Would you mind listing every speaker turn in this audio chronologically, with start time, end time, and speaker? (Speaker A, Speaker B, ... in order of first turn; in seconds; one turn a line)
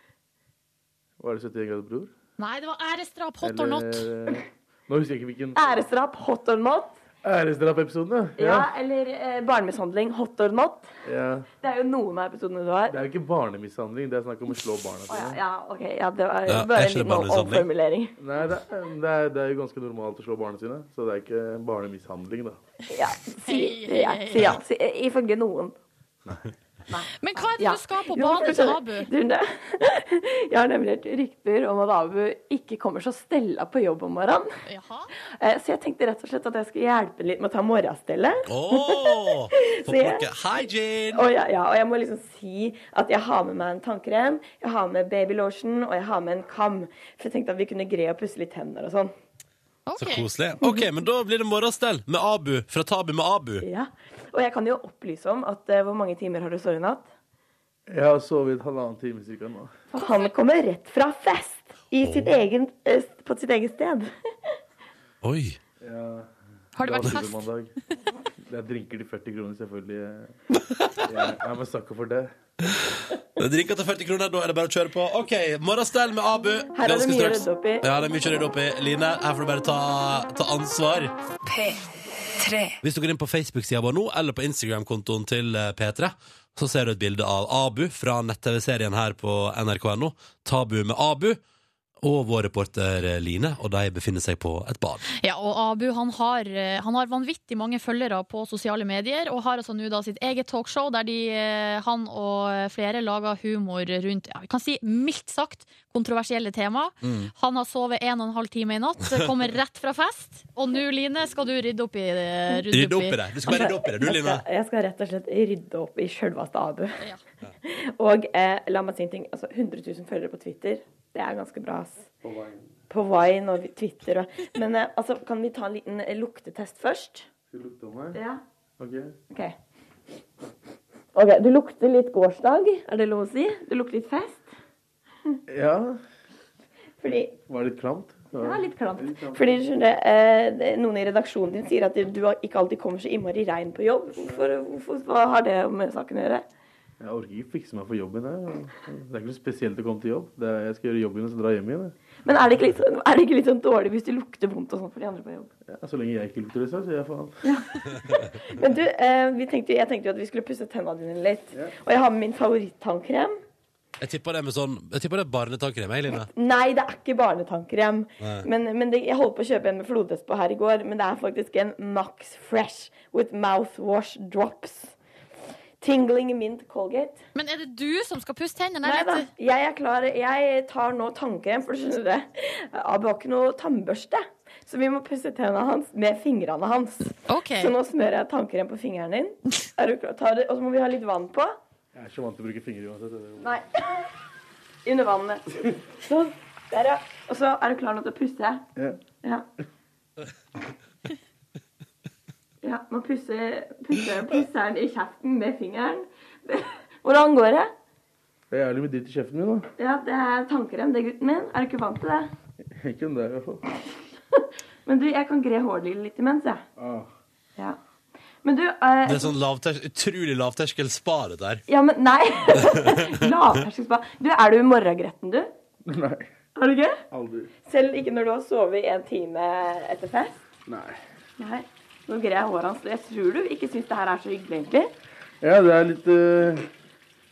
Speaker A: 1.2-2.1
Speaker B: 2.4-4.0
Speaker A: 3.4-5.8
Speaker C: 5.5-7.0
Speaker A: 7.2-8.7
Speaker C: 8.4-10.9
Speaker A: 11.0-11.5
Speaker C: 11.6-12.9
Speaker A: 12.9-15.4
Speaker C: 15.1-18.1
Speaker D: 16.5-17.6
Speaker A: 18.2-22.6
Speaker C: 22.9-25.7
Speaker B: 23.4-24.5
Speaker B: 27.2-29.1
Speaker C: 27.5-34.5
Speaker B: 34.6-35.1
Speaker C: 35.4-40.3
Speaker D: 38.5-41.3
Speaker C: 41.1-49.1
Speaker B: 49.9-50.3
Speaker D: 50.0-53.6
Speaker C: 50.6-50.9
Speaker C: 53.6-57.1
Speaker A: 57.9-59.7
Speaker C: 59.9-64.1
Speaker B: 60.0-60.3
Speaker D: 62.0-62.4
Speaker D: 65.2-65.6
Speaker A: 65.8-67.7
Speaker B: 66.8-67.5
Speaker A: 68.5-70.3
Speaker D: 70.5-71.1
Speaker A: 71.1-72.3
Speaker D: 72.7-81.1
Speaker C: 76.7-77.8
Speaker D: 82.8-91.4
Speaker D: 92.0-95.0
Speaker B: 95.2-113.2
Speaker D: 107.0-107.3
Speaker D: 112.7-114.4
Speaker C: 113.4-116.9
Speaker C: 117.6-122.1
Speaker A: 122.2-122.8
Speaker C: 122.9-127.3
Speaker A: 127.5-128.2
Speaker C: 128.1-128.4
Speaker A: 128.8-129.2
Speaker C: 129.3-129.6
Speaker C: 131.1-134.5
Speaker A: 135.5-136.0
Speaker C: 137.0-137.3
Speaker A: 137.0-139.7
Speaker C: 138.3-146.4
Speaker A: 147.0-151.9
Speaker C: 152.2-155.5
Speaker A: 155.6-158.0
Speaker C: 157.4-163.4
Speaker D: 164.0-166.3
Speaker C: 166.3-174.9
Speaker D: 168.2-168.4
Speaker C: 175.8-177.2
Speaker B: 177.3-179.3
Speaker C: 178.8-191.6
Speaker B: 187.2-187.7
Speaker A: 191.9-193.5
Speaker C: 193.4-194.0
Speaker C: 194.8-195.4
Speaker C: 196.0-198.6
Speaker A: 198.8-199.1
Speaker C: 202.6-207.7
Speaker A: 208.5-209.7
Speaker C: 209.8-212.3
Speaker A: 212.7-213.6
Speaker C: 214.8-216.6
Speaker A: 216.8-217.1
Speaker C: 218.4-219.3
Speaker D: 219.0-221.6
Speaker C: 221.7-225.5
Speaker A: 225.8-226.3
Speaker C: 226.6-227.0
Speaker A: 227.1-227.5
Speaker C: 227.7-230.4
Speaker A: 230.7-231.0
Speaker C: 231.4-234.9
Speaker A: 235.4-236.7